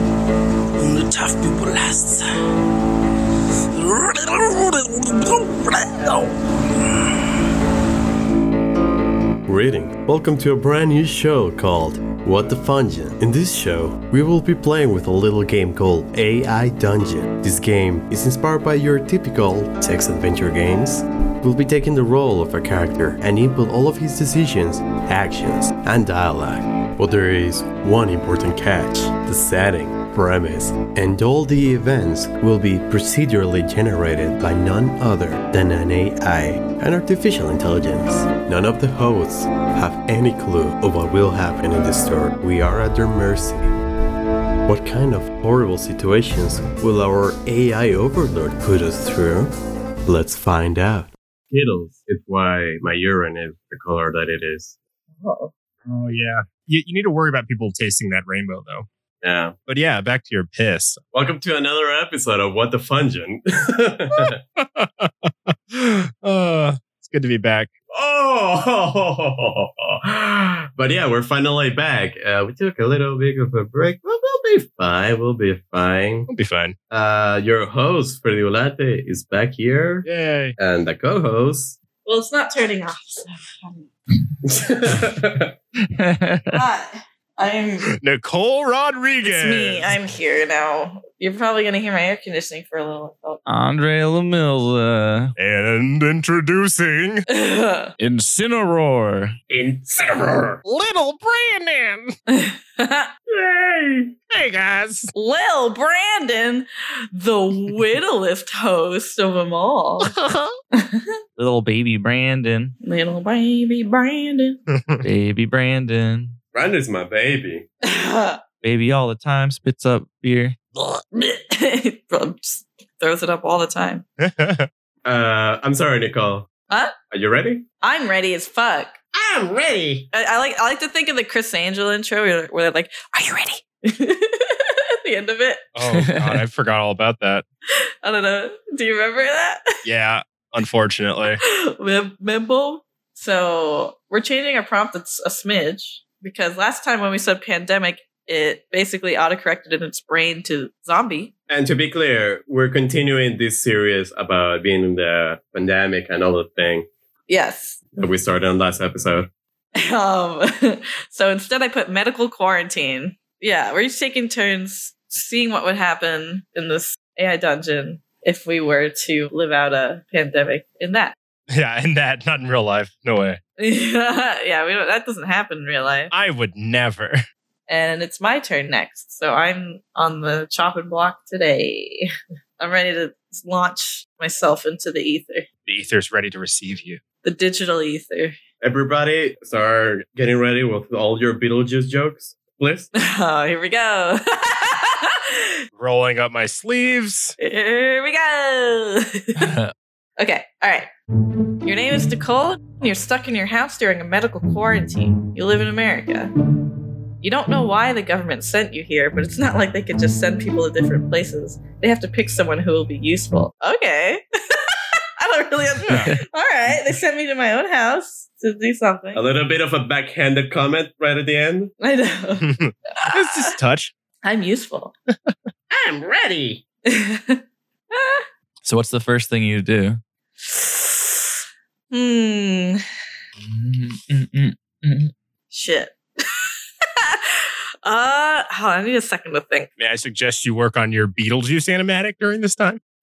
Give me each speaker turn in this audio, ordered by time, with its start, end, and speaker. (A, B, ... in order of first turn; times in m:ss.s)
0:00.8-0:02.3 A
0:03.7-0:06.4 A
0:09.5-0:43.8 B
0:44.7-0:54.8 B
0:55.2-0:55.5 C
0:55.9-0:58.9 D
0:59.2-0:59.6 B
0:59.7-1:01.0 D
1:01.1-1:04.4 B
1:04.2-1:07.7 D
1:07.9-1:16.3 B
1:16.3-1:16.8 D
1:16.9-1:20.1 B
1:20.0-1:20.6 D
1:20.6-1:21.8 B
1:22.0-1:23.9 C
1:24.4-1:25.6 B
1:25.8-1:26.6 E
1:26.5-1:27.9 C
1:28.0-1:29.9 D
1:29.2-1:33.4 C
1:33.5-1:35.3 E
1:35.4-1:37.2 D
1:37.3-1:37.9 C
1:38.0-1:39.4 E
1:39.5-1:40.6 B
1:40.6-1:42.2 D
1:42.3-1:43.1 C
1:43.3-1:44.1 B
1:44.3-1:45.1 D
1:45.1-1:50.1 C
1:50.1-1:50.5 D
1:50.7-1:51.1 C
1:51.4-1:52.8 E
1:52.8-1:54.6 C
1:54.7-1:55.0 D
1:55.0-1:56.4 E
1:56.5-1:57.7 B
1:57.8-1:58.4 C
1:58.6-2:00.6 E
2:00.8-2:04.0 C
2:04.2-2:04.7 D
2:05.0-2:06.5 B
2:07.1-2:07.7 B
2:07.8-2:09.0 C
2:09.1-2:10.1 B
2:10.1-2:15.6 C
2:15.8-2:17.4 D
2:15.9-2:16.4 E
2:17.8-2:19.7 C
2:19.8-2:21.4 D
2:21.4-2:31.3 C
2:31.5-2:36.9 B
2:37.3-2:37.8 C
2:38.0-2:39.3 B
2:39.8-2:51.2 C
2:51.5-2:53.4 D
2:53.6-2:56.1 C
2:56.1-2:57.2 D
2:57.7-3:05.5 C
3:05.6-3:07.0 D
3:07.2-3:08.4 C
3:08.6-3:12.9 B
3:13.0-3:15.6 C
3:15.8-3:17.4 D
3:17.4-3:19.6 C
3:19.4-3:19.7 E
3:20.2-3:20.9 C
3:21.6-3:26.3 C
3:27.2-3:39.2 C
3:35.9-3:36.2 E
3:39.1-3:41.7 B
3:41.8-3:43.5 C
3:42.4-3:43.9 D
3:44.2-3:44.9 C
3:45.7-3:46.6 B
3:46.9-3:47.4 C
3:47.9-3:48.2 C
3:48.6-3:50.0 E
3:50.4-3:51.2 C
3:51.9-3:52.8 C
3:53.4-3:55.1 E
3:55.5-3:59.7 C
3:59.8-4:02.8 D